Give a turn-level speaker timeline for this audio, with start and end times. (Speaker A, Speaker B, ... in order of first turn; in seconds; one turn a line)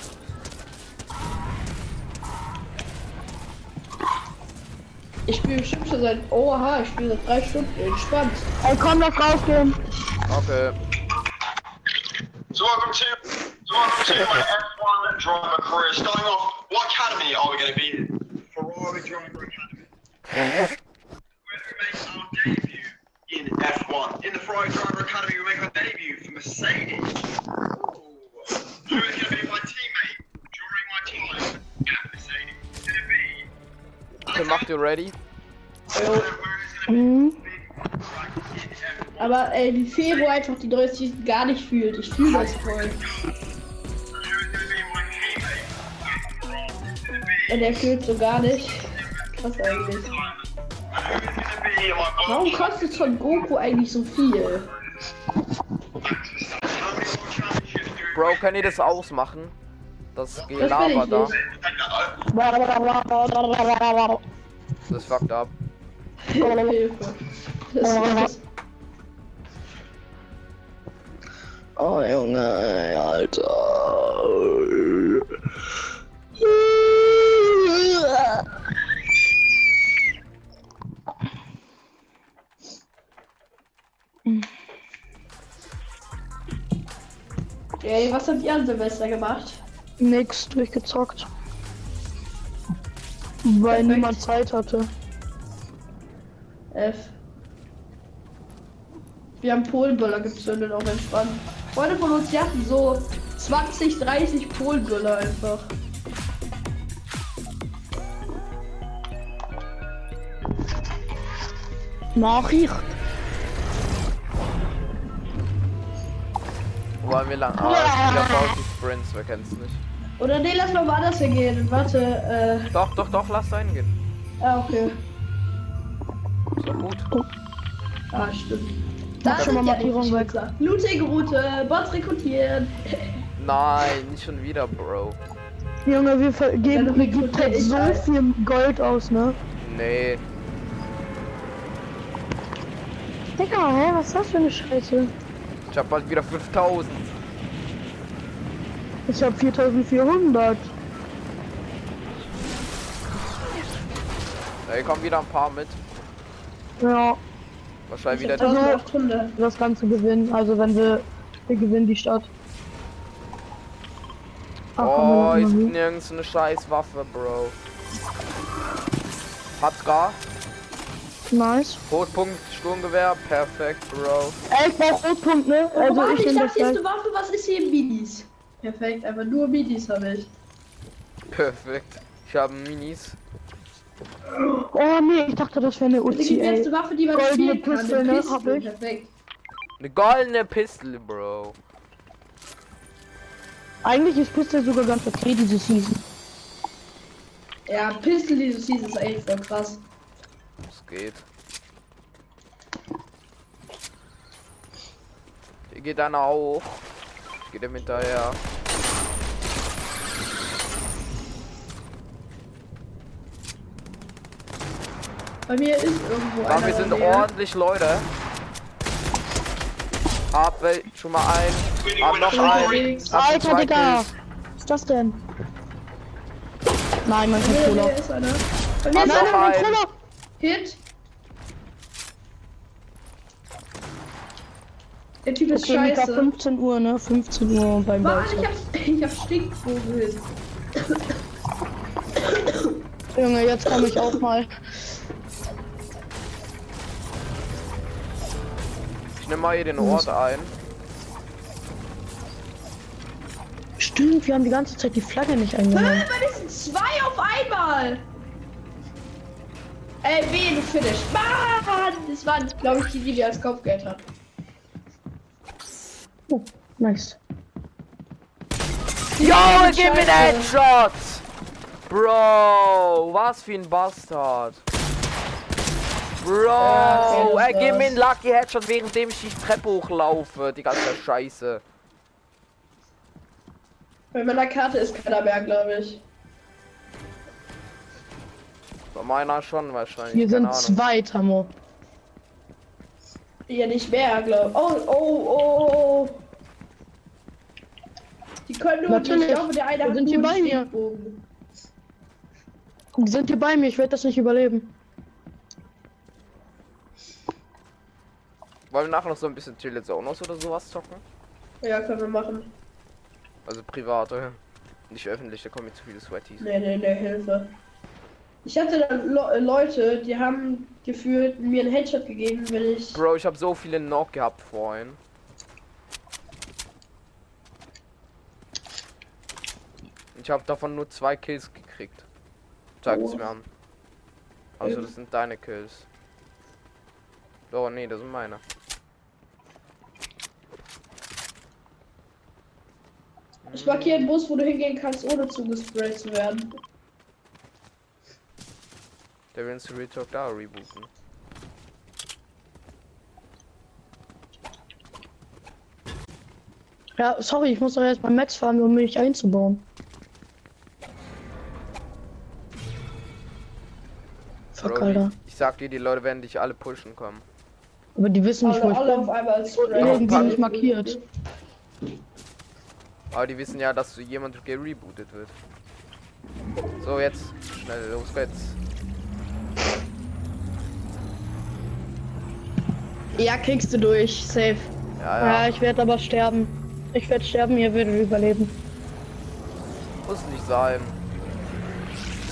Speaker A: 5.3-8.4
Speaker B: 8.6-9.8
Speaker C: 10.3-10.8
Speaker D: 12.5-19.8
Speaker D: 21.5-27.2
Speaker D: 27.7-33.3
Speaker D: 34.3-34.7
Speaker C: 34.3-35.1
Speaker A: 35.9-36.3
Speaker D: 35.9-39.3
Speaker B: 36.9-37.4
Speaker A: 39.2-43.0
Speaker D: 42.3-43.1
Speaker D: 44.2-47.5
Speaker A: 47.5-50.1
Speaker D: 50.9-53.3
Speaker A: 52.2-54.7
Speaker D: 56.0-58.9
Speaker C: 58.1-59.5
Speaker C: 60.1-61.3
Speaker D: 60.3-62.2
Speaker A: 60.6-61.4
Speaker B: 62.3-64.2
Speaker C: 64.9-65.5
Speaker A: 66.2-68.4
Speaker B: 66.4-66.8
Speaker B: 67.8-68.3
Speaker B: 71.8-75.2
Speaker B: 76.4-78.4
Speaker A: 87.8-89.6
Speaker B: 90.0-91.3
Speaker B: 93.4-94.9
Speaker A: 93.7-94.2
Speaker A: 96.7-97.1
Speaker A: 99.4-105.7
Speaker B: 112.2-112.9
Speaker C: 117.0-119.8
Speaker B: 117.6-118.5
Speaker A: 120.2-122.7
Speaker C: 122.7-123.9
Speaker A: 124.4-125.0
Speaker C: 126.6-127.1
Speaker A: 128.1-133.2
Speaker B: 129.2-130.3
Speaker C: 133.4-135.2
Speaker B: 135.8-139.4
Speaker A: 136.7-138.1
Speaker C: 139.6-140.2
Speaker B: 143.4-145.1
Speaker C: 145.7-147.1
Speaker B: 149.1-150.7
Speaker C: 154.7-155.8
Speaker B: 156.8-157.2
Speaker C: 157.9-158.5
Speaker A: 158.1-159.3
Speaker B: 158.3-158.8
Speaker B: 159.3-162.3
Speaker B: 164.8-165.7
Speaker C: 164.8-167.6
Speaker C: 169.6-170.2
Speaker B: 171.3-171.8
Speaker C: 171.9-174.4
Speaker B: 174.5-176.8
Speaker A: 175.7-180.3
Speaker C: 181.3-183.2
Speaker B: 184.4-188.7
Speaker A: 186.1-189.1
Speaker C: 189.8-191.6
Speaker B: 193.8-196.0
Speaker A: 197.7-199.8
Speaker C: 200.7-201.2
Speaker C: 205.7-206.8
Speaker C: 207.4-208.4
Speaker A: 215.5-217.3
Speaker C: 216.4-218.1
Speaker C: 220.3-224.1
Speaker D: 221.8-223.0
Speaker A: 222.3-223.1
Speaker B: 223.1-225.2
Speaker B: 227.0-227.9
Speaker A: 227.4-229.5
Speaker C: 229.0-229.8
Speaker B: 229.0-229.9
Speaker A: 230.4-230.8
Speaker A: 235.2-236.3
Speaker B: 235.5-238.5
Speaker A: 238.0-240.3
Speaker A: 242.3-242.7
Speaker B: 243.1-244.5
Speaker C: 249.2-250.5
Speaker B: 249.8-250.0
Speaker B: 253.8-256.1
Speaker A: 255.7-258.0
Speaker A: 260.0-264.0
Speaker B: 266.3-267.2
Speaker A: 269.2-270.5
Speaker C: 269.2-271.2
Speaker C: 271.9-274.6
Speaker C: 276.2-281.6
Speaker A: 276.6-277.9
Speaker A: 284.1-286.0
Speaker C: 288.9-290.8
Speaker B: 290.1-291.5
Speaker A: 293.5-296.2
Speaker A: 298.4-301.2
Speaker B: 298.9-300.7
Speaker B: 302.9-304.7
Speaker C: 308.7-311.0
Speaker A: 311.6-312.5
Speaker C: 313.4-316.5
Speaker A: 316.4-317.5
Speaker A: 318.4-323.0
Speaker C: 322.9-325.0
Speaker C: 330.1-332.1
Speaker C: 332.8-333.4
Speaker A: 332.9-333.2
Speaker C: 334.6-335.9
Speaker C: 337.5-338.4
Speaker C: 343.4-344.1
Speaker A: 343.5-346.5
Speaker C: 349.3-350.9
Speaker B: 357.0-359.6
Speaker B: 364.5-365.1
Speaker C: 364.6-367.2
Speaker B: 367.9-371.0
Speaker A: 368.4-371.0
Speaker C: 369.8-370.4
Speaker C: 373.1-375.3
Speaker C: 376.8-378.6
Speaker A: 383.1-384.7
Speaker C: 385.0-385.5
Speaker B: 385.2-388.6
Speaker C: 390.0-391.0